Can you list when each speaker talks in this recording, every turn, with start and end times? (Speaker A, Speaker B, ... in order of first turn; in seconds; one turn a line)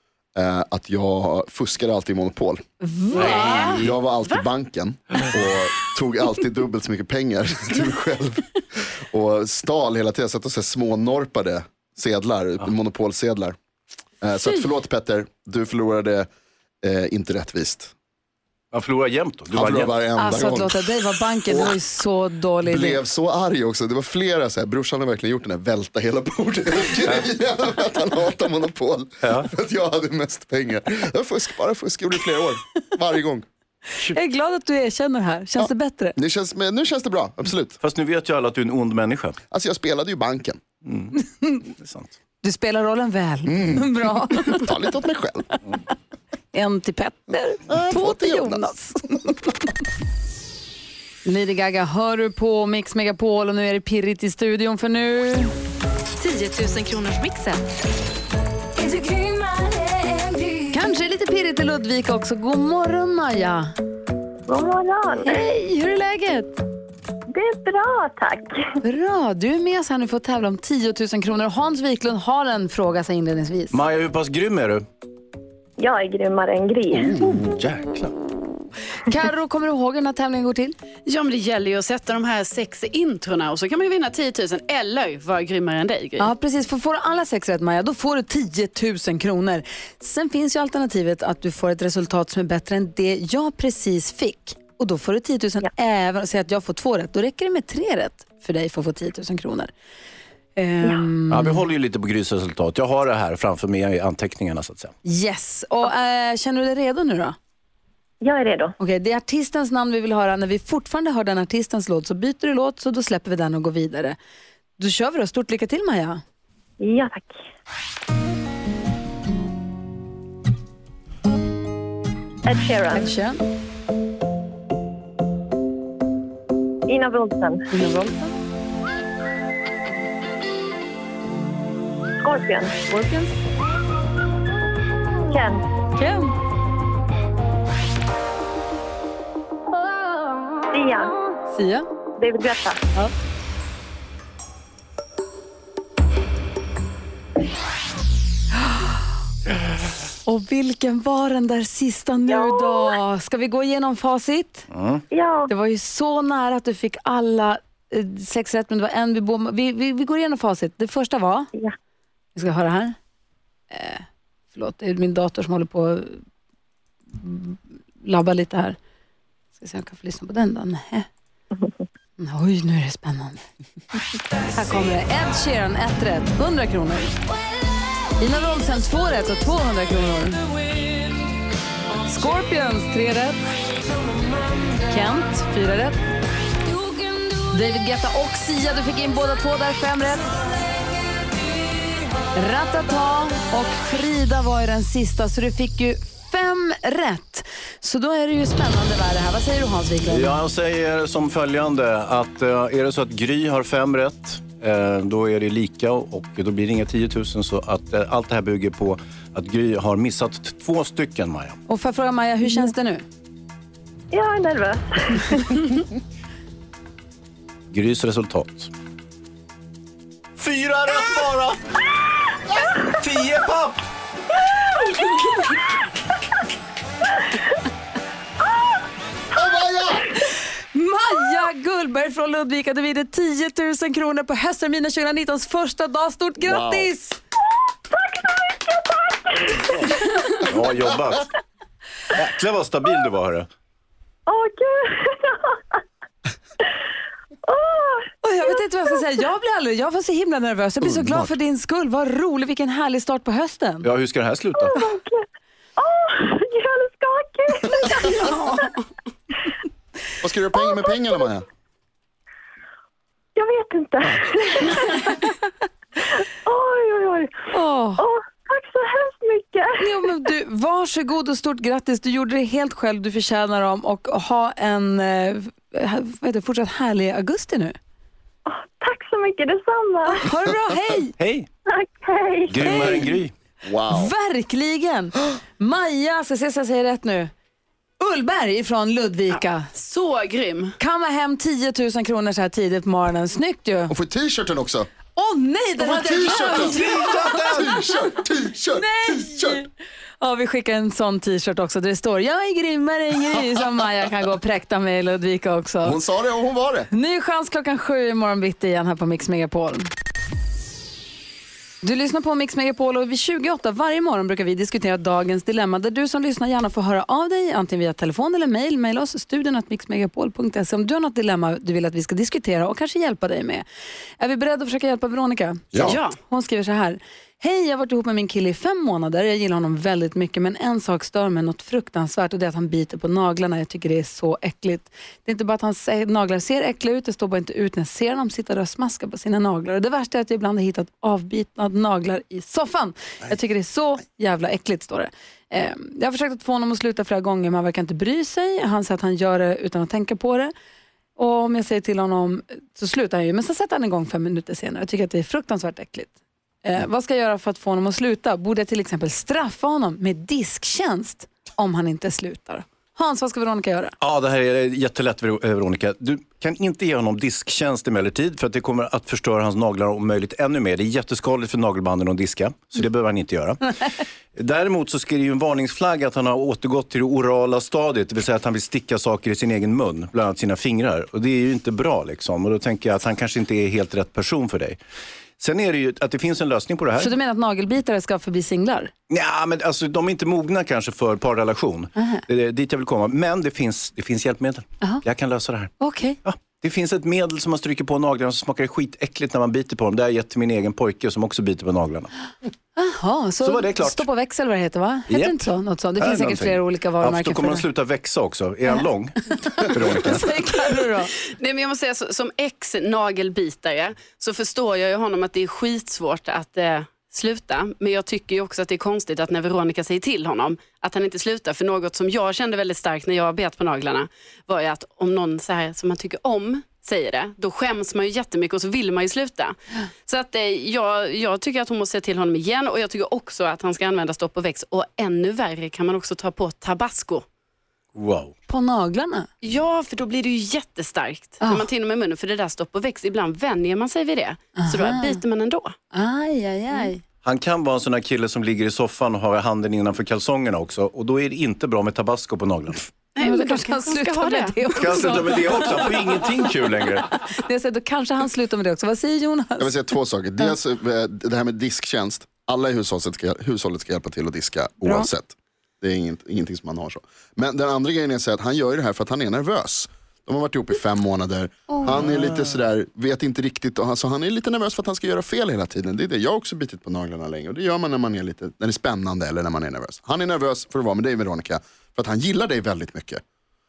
Speaker A: 0.3-2.6
Speaker B: 2.8-3.8
Speaker C: 3.1-3.9
Speaker D: 3.1-4.4
Speaker A: 3.8-13.6
Speaker A: 14.2-16.3
Speaker A: 16.8-17.9
Speaker C: 18.7-19.9
Speaker A: 19.5-20.9
Speaker B: 20.2-23.0
Speaker A: 21.5-21.8
Speaker A: 22.7-33.5
Speaker C: 29.2-29.5
Speaker B: 34.0-36.2
Speaker A: 35.6-37.8
Speaker C: 37.8-39.4
Speaker A: 39.5-40.6
Speaker C: 40.9-42.1
Speaker B: 42.4-44.7
Speaker A: 43.5-45.5
Speaker B: 46.5-49.6
Speaker A: 47.7-48.7
Speaker B: 51.2-55.5
Speaker B: 60.6-63.7
Speaker E: 64.5-65.5
Speaker B: 65.2-66.6
Speaker E: 67.3-68.7
Speaker B: 68.8-73.8
Speaker C: 73.7-74.8
Speaker E: 75.8-77.4
Speaker C: 76.9-78.1
Speaker B: 79.0-80.8
Speaker D: 81.1-86.3
Speaker B: 86.2-99.7
Speaker B: 100.6-101.6
Speaker C: 101.3-104.9
Speaker B: 105.0-107.4
Speaker E: 108.2-108.8
Speaker B: 108.8-114.2
Speaker B: 114.8-116.2
Speaker E: 116.8-117.4
Speaker E: 122.5-123.1
Speaker B: 122.9-123.4
Speaker E: 126.9-127.7
Speaker B: 127.7-128.2
Speaker E: 132.2-132.8
Speaker B: 132.9-133.3
Speaker E: 135.3-135.7
Speaker B: 135.9-136.3
Speaker E: 140.7-141.2
Speaker B: 141.5-141.8
Speaker E: 142.2-142.8
Speaker B: 150.2-154.7
Speaker E: 152.3-153.0
Speaker C: 154.7-155.0
Speaker E: 155.1-155.5
Speaker B: 155.5-161.5
Speaker B: 162.3-163.0
Speaker B: 163.7-166.2
Speaker B: 167.2-168.8
Speaker B: 169.6-171.1
Speaker E: 171.5-171.8
Speaker B: 172.2-173.4
Speaker B: 174.5-177.2
Speaker B: 178.2-180.4
Speaker B: 182.1-183.4
Speaker B: 184.9-186.0
Speaker B: 187.5-190.3
Speaker B: 192.3-200.3
Speaker C: 200.1-211.6
Speaker B: 211.7-213.0
Speaker E: 214.1-215.8
Speaker C: 217.7-218.7
Speaker C: 220.4-221.6
Speaker C: 222.8-223.8
Speaker E: 228.5-228.8
Speaker A: 229.3-230.2
Speaker B: 230.7-237.2
Speaker A: 236.4-236.9
Speaker E: 237.4-240.3
Speaker C: 240.4-241.3
Speaker C: 242.1-243.5
Speaker E: 244.3-245.8
Speaker E: 247.5-249.0
Speaker B: 248.2-253.9
Speaker A: 250.8-251.3
Speaker C: 253.8-254.9
Speaker E: 254.5-255.3
Speaker E: 255.8-258.7
Speaker B: 257.7-258.7
Speaker A: 260.2-261.4
Speaker E: 260.5-261.3
Speaker E: 263.4-265.4
Speaker E: 266.0-270.0
Speaker B: 267.5-268.1
Speaker B: 269.8-277.8
Speaker E: 278.5-280.3
Speaker B: 280.1-281.1
Speaker C: 281.2-281.5
Speaker E: 281.7-283.1
Speaker C: 282.5-283.3
Speaker B: 282.7-283.1
Speaker A: 283.6-284.1
Speaker B: 283.9-287.3
Speaker B: 288.0-289.7
Speaker D: 289.8-290.7
Speaker B: 290.8-293.9
Speaker A: 293.9-294.9
Speaker B: 295.1-297.8
Speaker A: 295.8-299.6
Speaker C: 296.6-297.6
Speaker B: 298.7-299.7
Speaker B: 300.2-306.0
Speaker A: 305.8-306.9
Speaker B: 306.9-309.9
Speaker B: 311.8-323.6
Speaker B: 324.2-350.5
Speaker A: 325.7-326.0
Speaker D: 325.8-326.2
Speaker B: 351.2-356.1
Speaker B: 356.6-363.9
Speaker C: 364.0-384.8
Speaker C: 385.4-387.1
Speaker B: 387.0-388.9
Speaker C: 389.1-395.7
Speaker B: 395.8-396.2
Speaker C: 396.2-402.1
Speaker B: 402.8-407.7
Speaker C: 403.4-404.1
Speaker C: 405.1-410.3
Speaker B: 409.4-411.1
Speaker D: 411.4-437.2
Speaker C: 437.9-438.3
Speaker B: 438.5-439.3
Speaker D: 439.4-445.8
Speaker B: 441.4-441.7
Speaker B: 444.6-445.2
Speaker B: 445.9-447.0
Speaker C: 447.2-452.9
Speaker D: 453.2-455.1
Speaker B: 453.2-455.9
Speaker C: 454.8-457.1
Speaker B: 457.2-459.7
Speaker A: 459.6-483.2
Speaker B: 464.8-465.1
Speaker B: 471.7-472.0
Speaker C: 471.9-472.6